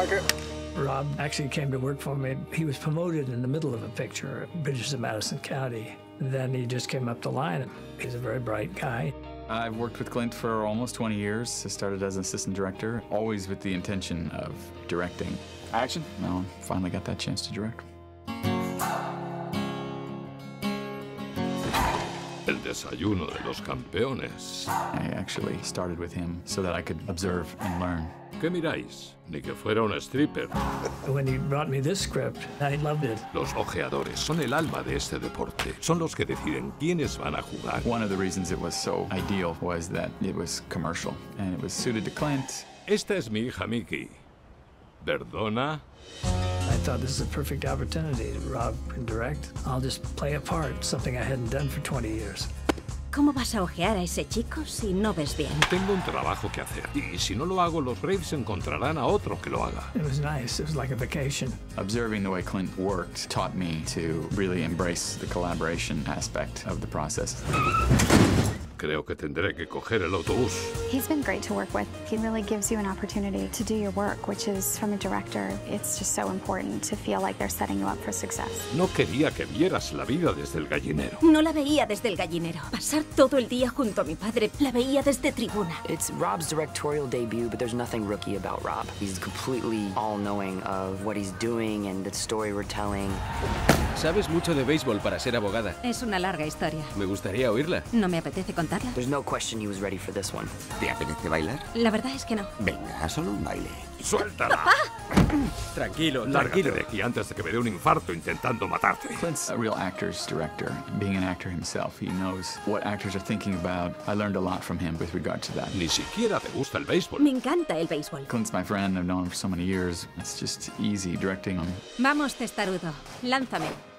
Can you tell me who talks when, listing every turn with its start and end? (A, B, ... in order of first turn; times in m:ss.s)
0:00.7-0:09.1 A
0:09.5-0:17.8 B
0:22.5-0:24.7 C
0:24.9-0:28.1 B
0:28.4-0:30.5 C
0:31.0-0:33.2 A
0:33.3-0:37.8 C
0:37.8-0:42.7 B
0:42.9-0:44.2 C
0:45.0-0:45.8 C
0:46.6-0:52.5 A
0:53.1-0:55.6 D
0:55.6-0:59.9 C
0:59.9-1:01.6 A
1:01.8-1:07.4 B
1:08.8-1:10.7 C
1:10.9-1:18.6 E
1:18.7-1:21.2 C
1:21.2-1:25.8 D
1:25.9-1:33.2 F
1:34.0-1:35.8 G
1:35.8-1:37.0 D
1:36.9-1:37.8 G
1:37.9-1:39.0 D
1:39.0-1:40.5 F
1:40.8-1:41.7 H
1:41.7-1:42.5 D
1:42.6-1:43.9 H
1:44.0-1:44.7 C
1:44.5-1:44.8 D
1:45.7-1:46.8 G
1:46.2-1:49.2 C
1:49.1-1:55.8 B
1:55.7-1:57.3 C
1:57.2-1:58.3 D
1:58.3-2:01.8 B
2:02.0-2:03.8 D